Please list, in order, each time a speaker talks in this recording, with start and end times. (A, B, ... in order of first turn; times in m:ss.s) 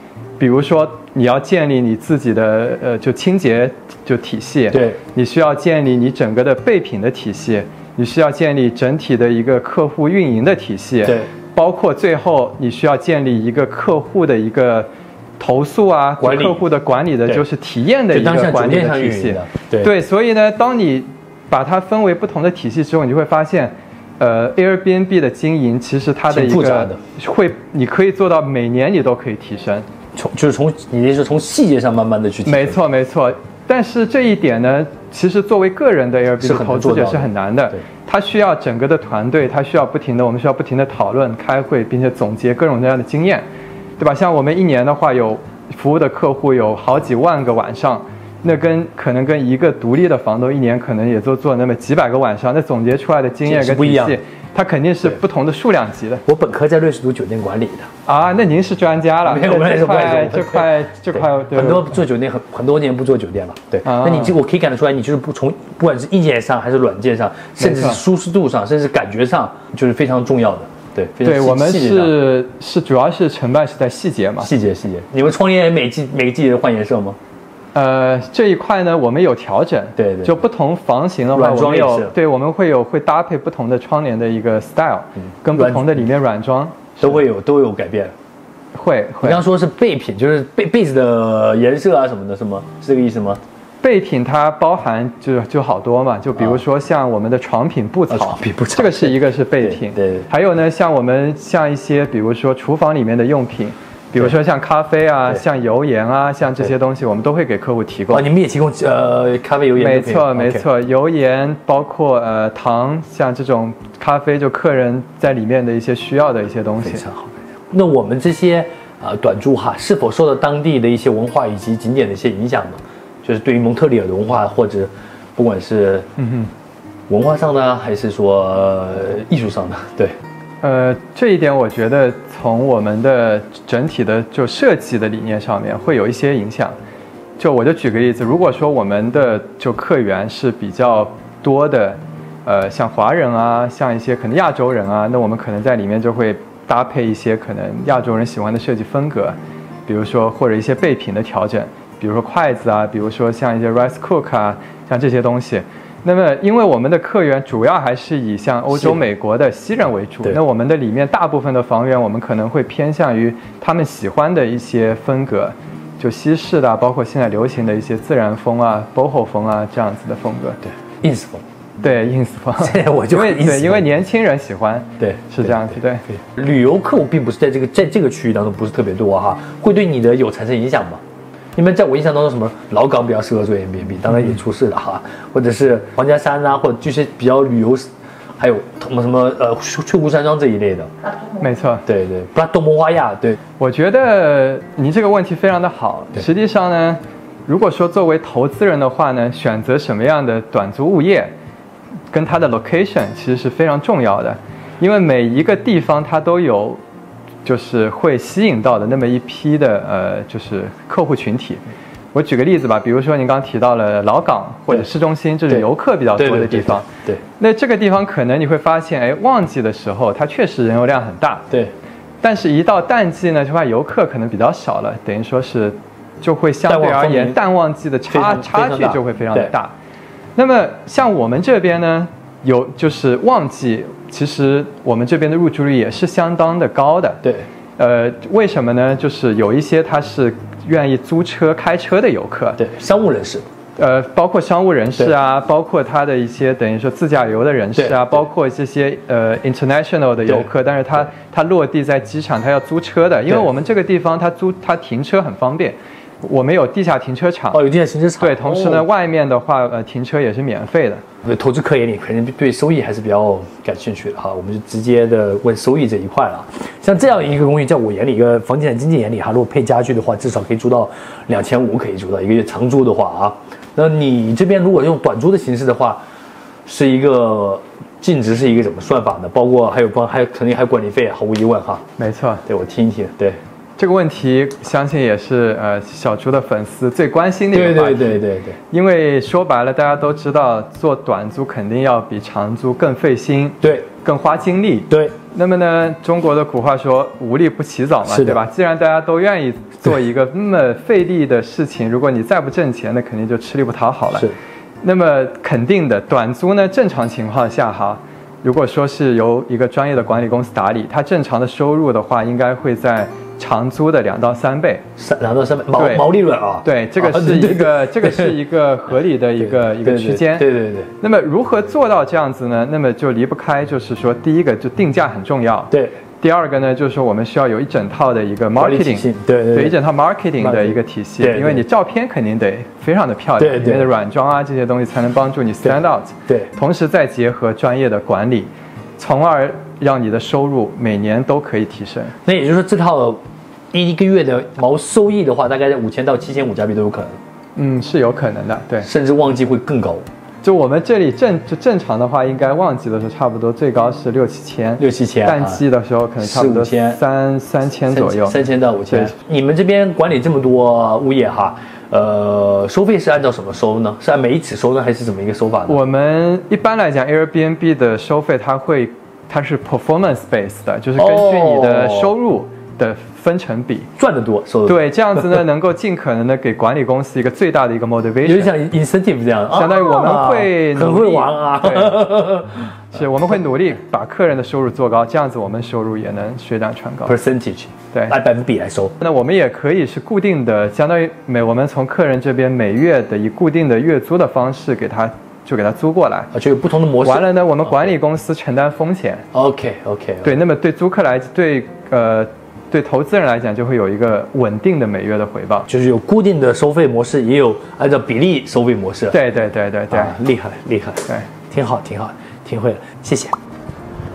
0:00.4-0:29.9 A
0:04.7-0:05.0 B
0:11.0-0:11.3 B
0:16.2-0:16.6 B
0:18.1-0:19.9 B
0:26.3-0:27.0 B
0:30.1-0:32.8 B
0:32.4-0:43.4 A
0:36.4-0:37.8 B
0:44.0-0:56.2 A
0:53.4-0:54.2 B
0:56.2-0:57.9 B
0:58.0-1:01.9 A
0:59.2-1:12.2 B
1:03.8-1:04.4 A
1:07.6-1:08.0 A
1:11.2-1:14.5 A
1:14.4-1:17.2 B
1:17.7-1:27.2 A
1:20.0-1:20.4 B
1:21.3-1:22.1 B
1:25.5-1:26.0 B
1:27.0-1:28.1 B
1:28.7-1:29.4 A
1:29.2-1:33.4 B
1:33.8-1:48.2 A
1:38.1-1:40.3 B
1:48.1-1:50.6 B
1:49.8-1:57.0 A
1:56.8-2:06.1 B
2:06.2-2:06.5 A
2:07.1-2:10.2 B
2:10.6-2:16.7 A
2:17.4-2:50.6 A
2:38.7-2:39.0 B
2:50.6-2:51.4 B
2:51.8-2:56.0 A
2:52.6-2:53.8 B
2:55.0-3:01.0 B
3:01.6-3:07.8 B
3:08.4-3:11.1 B
3:11.3-3:11.8 A
3:11.8-3:13.4 B
3:13.6-3:21.3 A
3:22.1-3:26.8 A
3:27.4-3:31.6 A
3:32.1-3:36.8 A
3:35.5-3:37.2 B
3:37.4-3:41.4 A
3:42.2-3:49.7 A
3:46.7-3:47.4 B
3:48.1-3:49.5 B
3:50.4-3:57.2 A
3:57.8-4:02.6 A
4:02.6-4:03.4 B
4:03.8-4:17.6 A
4:07.8-4:08.2 B
4:17.5-4:18.8 B
4:18.2-4:21.0 A
4:21.2-4:36.0 B
4:36.6-4:41.8 B
4:42.0-4:42.4 A
4:42.4-4:43.4 B
4:43.8-5:04.3 A
4:47.5-4:48.6 B
4:53.6-4:53.9 B
4:58.1-4:58.4 B
5:04.8-5:14.8 A
5:15.0-5:18.4 B
5:15.8-5:16.0 A
5:16.6-5:20.5 A
5:19.4-5:20.9 B
5:21.0-5:42.1 A
5:25.7-5:26.0 B
5:28.6-5:29.8 B
5:30.4-5:31.6 B
5:33.4-5:33.9 B
5:35.6-5:36.5 B
5:42.2-5:43.2 B
5:43.7-5:47.2 B
5:47.6-5:48.9 A
5:48.8-5:50.0 B
5:50.4-5:58.4 A
5:54.8-5:55.6 B
5:56.2-5:57.0 B
5:57.9-6:05.8 B
6:05.7-6:13.9 A
6:11.0-6:12.1 B
6:14.0-6:15.4 B
6:14.6-6:18.5 A
6:18.2-6:22.7 B
6:19.5-6:22.0 A
6:22.9-6:27.1 A
6:27.1-6:28.9 B
6:29.0-6:36.3 A
6:36.3-6:37.9 B
6:37.0-6:39.2 A
6:39.3-6:40.4 B
6:40.2-6:45.7 A
6:45.7-6:49.2 B
6:49.1-6:50.2 A
6:49.9-6:53.4 B